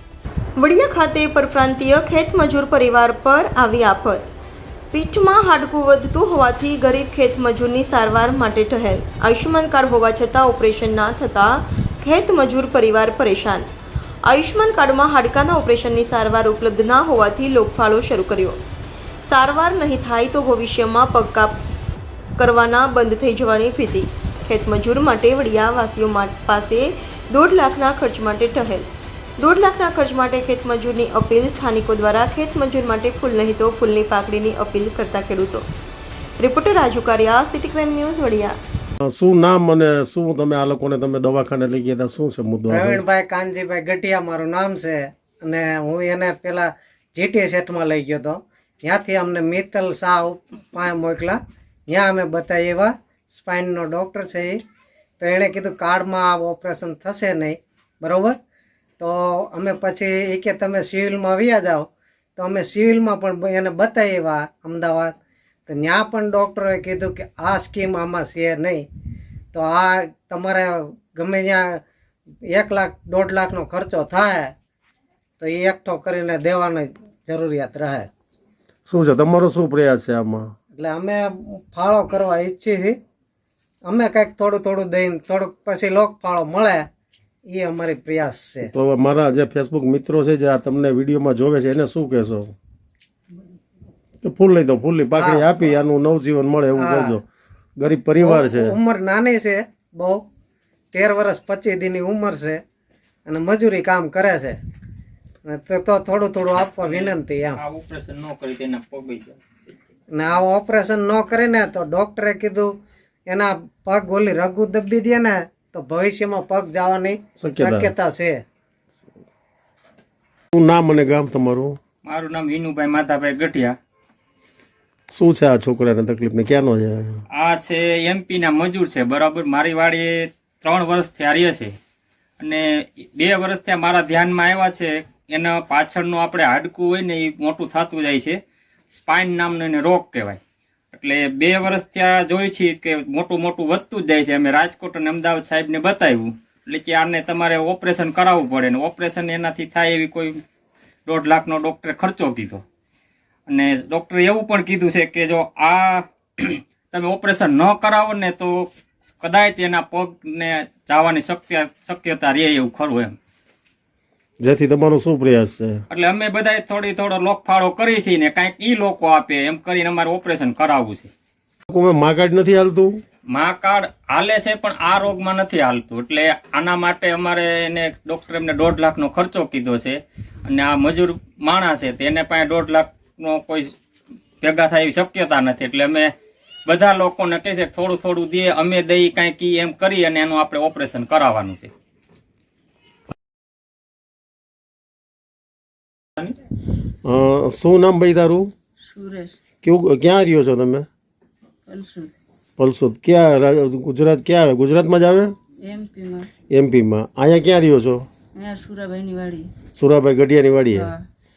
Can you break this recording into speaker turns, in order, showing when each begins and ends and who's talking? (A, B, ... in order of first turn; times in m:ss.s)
0:00.6-0:04.2 A
0:04.9-0:13.7 A
0:14.2-0:18.6 A
0:19.2-0:21.6 A
0:22.4-0:35.7 A
0:36.4-0:38.6 A
0:39.0-0:43.0 B
0:42.7-0:54.6 C
0:55.2-0:58.4 C
0:59.0-1:05.1 C
1:05.7-1:08.8 C
1:09.5-1:11.8 C
1:12.5-1:14.5 C
1:15.4-1:18.1 C
1:18.8-1:20.5 B
1:20.7-1:23.0 C
1:23.8-1:26.8 C
1:27.4-1:28.7 C
1:28.6-1:32.5 B
1:34.2-1:37.2 B
1:35.1-1:35.5 C
1:36.7-1:37.2 C
1:37.8-1:38.8 B
1:38.2-1:40.2 C
1:40.9-1:42.6 C
1:43.3-1:44.6 C
1:45.4-1:47.6 C
1:46.8-1:49.4 D
1:50.1-1:52.7 C
1:53.3-1:58.4 C
1:57.4-1:57.9 B
2:00.5-2:01.8 B
2:02.0-2:03.7 D
2:05.1-2:07.2 B
2:07.3-2:11.8 D
2:12.4-2:18.4 D
2:18.9-2:20.4 D
2:20.9-2:30.4 D
2:31.1-2:32.6 D
2:33.5-2:38.7 D
2:39.2-2:43.2 D
2:44.4-2:45.8 B
2:45.9-2:51.1 D
2:51.7-2:53.0 B
2:53.3-3:03.7 D
3:04.4-3:06.1 D
3:06.7-3:11.7 D
3:17.0-3:18.5 B
3:18.8-3:19.4 E
3:19.6-3:20.9 B
3:21.7-3:22.1 E
3:22.6-3:25.3 B
3:25.6-3:26.3 E
3:26.5-3:28.1 B
3:28.4-3:29.5 E
3:29.7-3:30.9 B
3:30.7-3:31.0 E